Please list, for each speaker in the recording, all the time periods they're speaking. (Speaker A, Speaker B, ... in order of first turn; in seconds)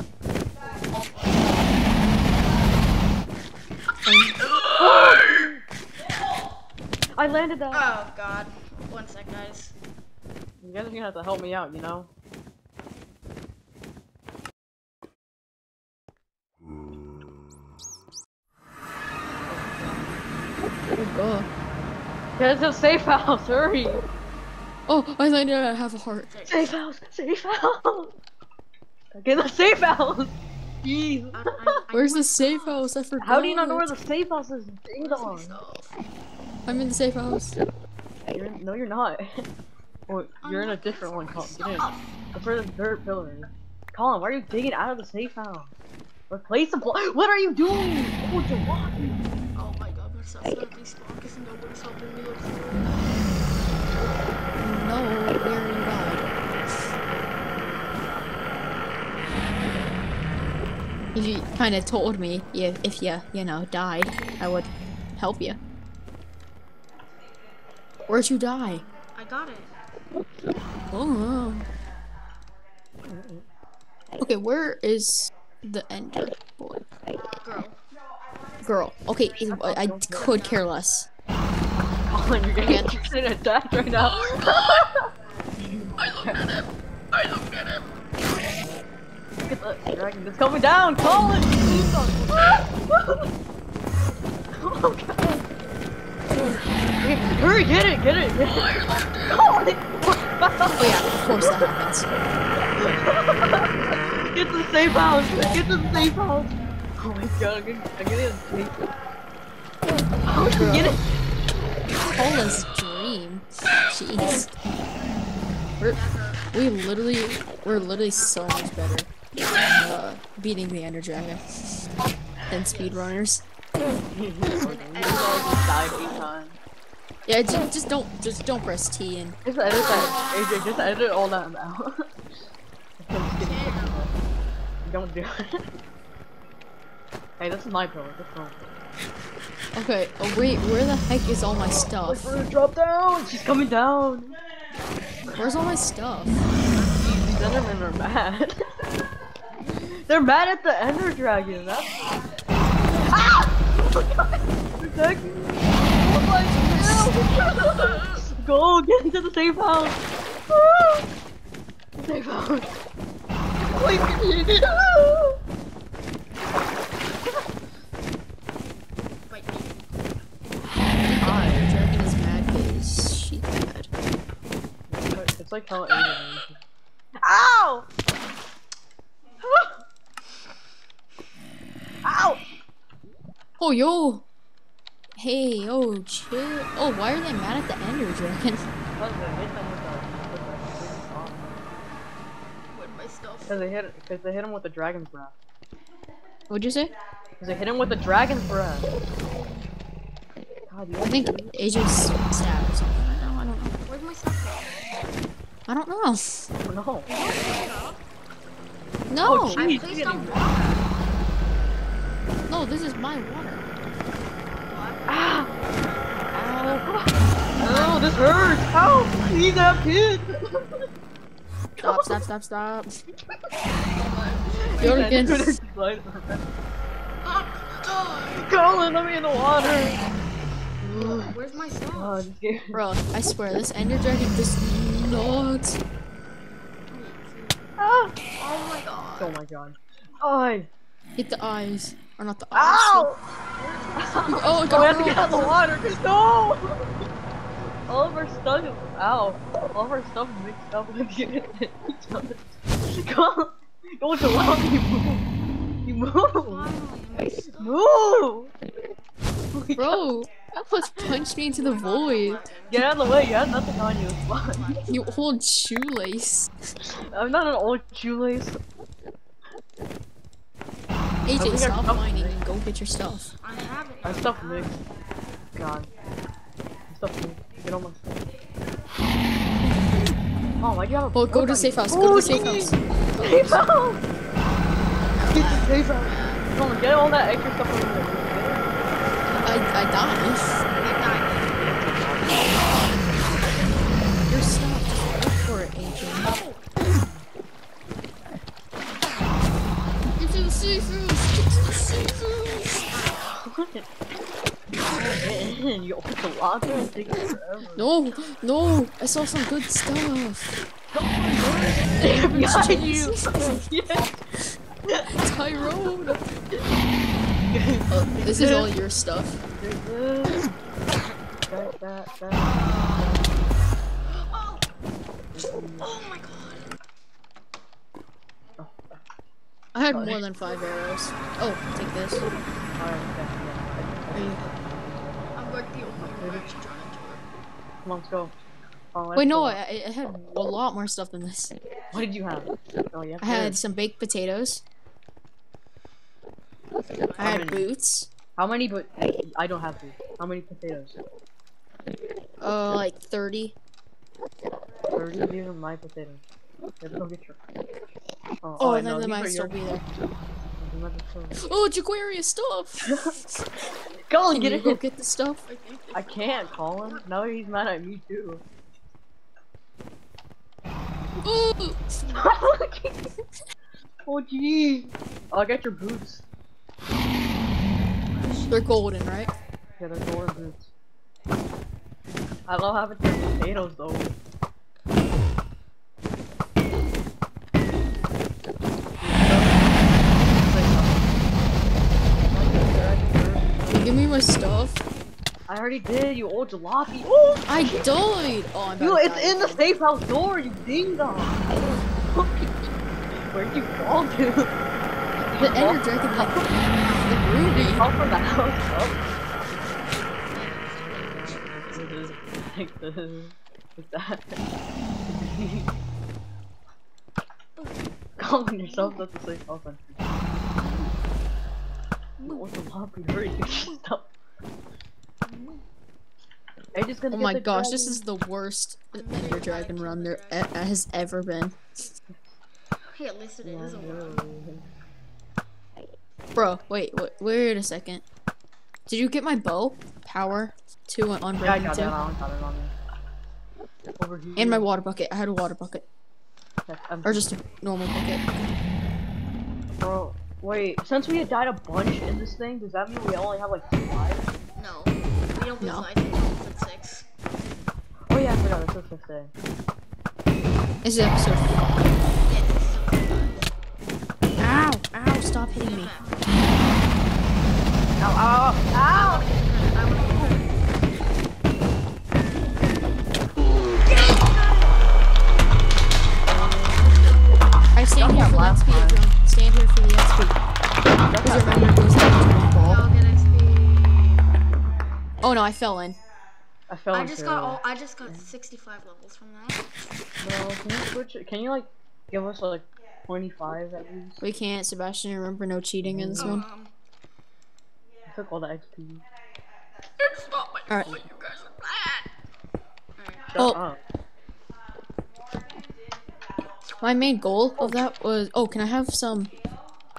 Speaker A: 0.8-1.7, 7.7-9.7, 26.3-26.7, 31.3-32.9, 35.0-36.0, 40.4-42.1, 49.5-53.2, 68.7-69.7, 77.4-77.8, 80.1-80.6, 115.9-116.5, 117.6-118.7, 122.5-123.1, 124.6-126.3, 133.4-134.1, 146.4-147.8, 169.3-169.8, 192.7-193.7, 199.3-199.7, 203.9-204.8, 207.1-208.0, 209.5-210.9, 214.7-216.8, 217.5-219.9, 223.9-225.3, 227.2-228.5, 230.9-232.3, 236.9-237.7, 238.4-239.3, 243.6-245.7, 256.3-257.8, 261.5-262.9, 264.5-265.2, 273.4-274.7, 285.3-286.5, 289.2-289.5, 290.7-291.6, 296.1-296.6, 302.8-303.3, 308.1-308.5, 322.4-323.2, 324.0-324.6, 325.8-326.7, 335.3-337.2, 346.8-347.4, 365.5-367.0, 378.1-378.8, 406.7-407.1, 410.3-412.1, 417.6-417.8, 428.9-430.5, 432.8-434.2, 454.6-457.1, 462.2-463.5, 465.6-466.3, 468.9-470.5, 482.6-484.3, 486.9-489.7, 496.2-496.7, 500.0-502.0, 503.0-503.4
Speaker B: 4.0-4.4, 20.9-21.5, 24.9-26.3, 31.9-33.9, 36.6-37.6, 54.6-56.5, 61.1-65.6, 68.1-68.8, 70.9-71.7, 74.2-76.8, 78.6-81.1, 82.6-83.0, 100.8-102.1, 110.5-110.9, 112.0-114.5, 116.5-119.1, 119.7-121.4, 122.5-123.4, 127.2-130.1, 139.7-142.2, 145.3-146.4, 156.5-157.1, 170.9-173.9, 183.6-184.2, 185.2-188.6, 196.5-196.9, 201.0-203.8, 205.7-206.4, 209.1-209.6, 212.5-213.6, 216.3-216.8, 221.8-222.9, 224.8-225.5, 232.7-235.8, 241.2-243.1, 244.3-245.5, 259.8-262.5, 264.9-266.5, 271.2-273.3, 279.7-280.1, 281.1-283.6, 285.1-285.6, 289.4-290.6, 294.3-296.3, 300.1-302.9, 307.8-310.6, 312.0-316.2, 317.9-319.4, 329.7-332.3, 334.1-334.4, 339.1-341.6, 343.2-344.6, 347.2-348.1, 352.4-353.6, 358.6-359.8, 361.4-363.4, 364.3-365.4, 371.2-371.9, 378.5-379.3, 393.7-394.8, 397.5-399.6, 405.4-407.9, 427.1-431.6, 436.3-438.0, 438.9-441.9, 444.4-445.9, 447.0-448.6, 455.6-455.9, 460.8-461.6, 464.4-466.0, 477.7-480.4, 481.2-482.8, 485.2-486.0, 494.2-496.4, 500.7-501.0, 506.8-509.3
Speaker C: 4.6-5.6, 7.2-7.9, 10.6-12.1, 19.5-20.2, 22.4-24.0, 26.5-28.1, 29.1-31.6, 33.2-35.6, 38.3-39.5, 40.1-45.7, 46.3-49.3, 73.0-73.5, 79.5-80.4, 82.0-86.5, 89.5-93.3, 94.5-95.4, 97.0-101.7, 102.7-108.9, 110.2-111.1, 124.1-126.6, 129.4-132.1, 133.0-134.1, 134.8-135.7, 137.4-138.7, 141.8-144.4, 147.0-148.7, 149.6-161.1, 161.9-162.7, 163.6-165.4, 171.2-171.7, 174.9-176.6, 177.2-177.9, 179.4-179.8, 182.0-182.4, 189.0-191.5, 193.5-195.3, 197.4-198.9, 200.7-201.6, 206.6-207.1, 209.2-210.7, 215.1-215.5, 216.3-220.8, 221.8-222.1, 224.6-226.4, 228.3-230.0, 230.8-231.4, 231.9-232.8, 237.8-238.1, 239.2-240.7, 242.5-243.2, 243.9-246.9, 247.9-255.3, 255.8-256.7, 257.6-258.5, 259.5-260.0, 262.7-264.8, 266.8-268.6, 271.4-272.4, 274.0-274.8, 275.5-275.9, 276.9-278.3, 280.6-284.1, 285.3-288.9, 291.5-293.1, 303.1-303.9, 304.9-307.9, 310.9-314.2, 314.9-315.1, 315.9-316.6, 317.5-318.7, 319.6-320.5, 321.5-323.3, 325.3-325.9, 328.6-329.0, 329.9-330.2, 332.8-336.5, 337.8-338.4, 338.9-339.6, 341.9-343.6, 347.2-347.7, 348.4-351.0, 354.9-356.2, 356.8-357.4, 358.4-359.8, 360.6-361.5, 362.8-363.2, 364.0-364.8, 365.9-368.4, 372.1-373.0, 374.0-376.2, 379.8-380.7, 382.5-384.2, 389.0-391.4, 392.3-394.2, 395.5-397.9, 398.8-402.6, 403.3-404.6, 405.2-406.5, 407.5-409.1, 411.1-414.4, 415.1-415.7, 418.2-420.1, 422.2-424.1, 426.7-428.0, 433.4-434.7, 441.4-442.7, 444.0-444.7, 446.7-447.3, 449.8-454.3, 458.1-459.3, 468.0-469.2, 470.0-470.4, 476.2-477.0, 477.9-479.0, 481.0-481.8, 486.7-488.3, 490.2-494.2, 495.8-496.4, 498.1-499.0, 503.3-503.8